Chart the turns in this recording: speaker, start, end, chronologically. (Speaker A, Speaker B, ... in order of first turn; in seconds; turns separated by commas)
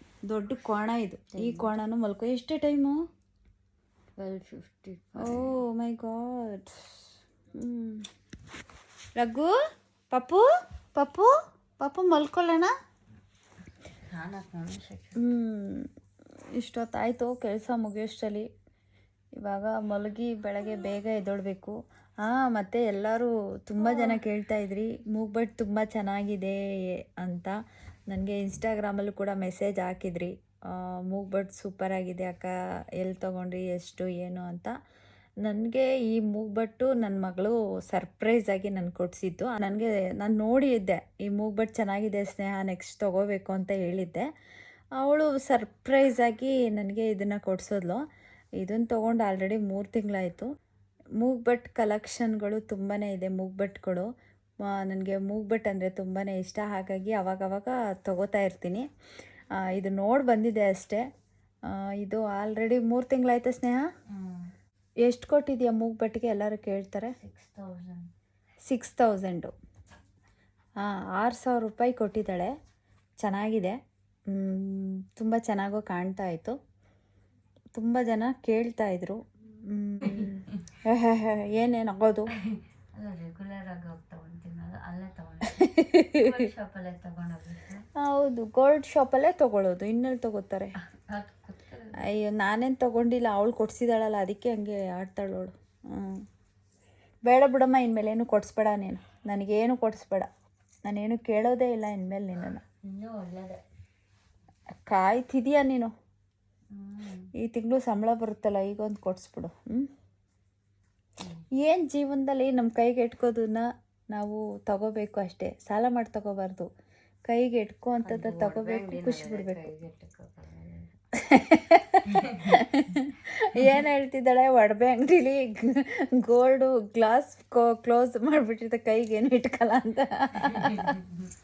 Speaker A: 0.3-3.0, Speaker B: 1.4-1.7, Speaker B: 4.2-5.5, Speaker A: 5.2-6.9, Speaker A: 7.6-8.0, Speaker A: 9.2-9.5, Speaker A: 10.1-12.7, Speaker B: 14.1-15.2, Speaker A: 15.2-15.8, Speaker A: 16.6-18.4, Speaker A: 19.4-21.7, Speaker A: 22.2-26.6, Speaker B: 23.9-24.1, Speaker A: 27.2-27.5, Speaker A: 28.1-30.3, Speaker A: 30.9-32.5, Speaker A: 33.0-34.7, Speaker A: 35.4-44.2, Speaker A: 45.0-48.0, Speaker A: 48.6-50.5, Speaker A: 51.2-54.1, Speaker A: 54.7-58.9, Speaker A: 59.6-61.0, Speaker A: 61.8-63.8, Speaker B: 64.1-64.5, Speaker A: 65.0-67.1, Speaker B: 67.2-68.1, Speaker A: 68.6-69.5, Speaker A: 70.8-72.5, Speaker A: 73.2-73.8, Speaker A: 74.3-76.5, Speaker A: 77.8-82.3, Speaker B: 80.0-80.4, Speaker B: 82.4-87.8, Speaker A: 85.6-86.2, Speaker A: 88.0-90.7, Speaker B: 90.9-91.9, Speaker A: 92.0-96.2, Speaker A: 97.3-100.3, Speaker A: 100.9-102.6, Speaker B: 102.8-103.6, Speaker A: 104.9-105.9, Speaker B: 106.7-107.3, Speaker A: 107.4-109.8, Speaker A: 111.6-116.6, Speaker A: 117.3-119.7, Speaker B: 118.0-121.0, Speaker A: 121.3-131.0, Speaker B: 122.1-122.5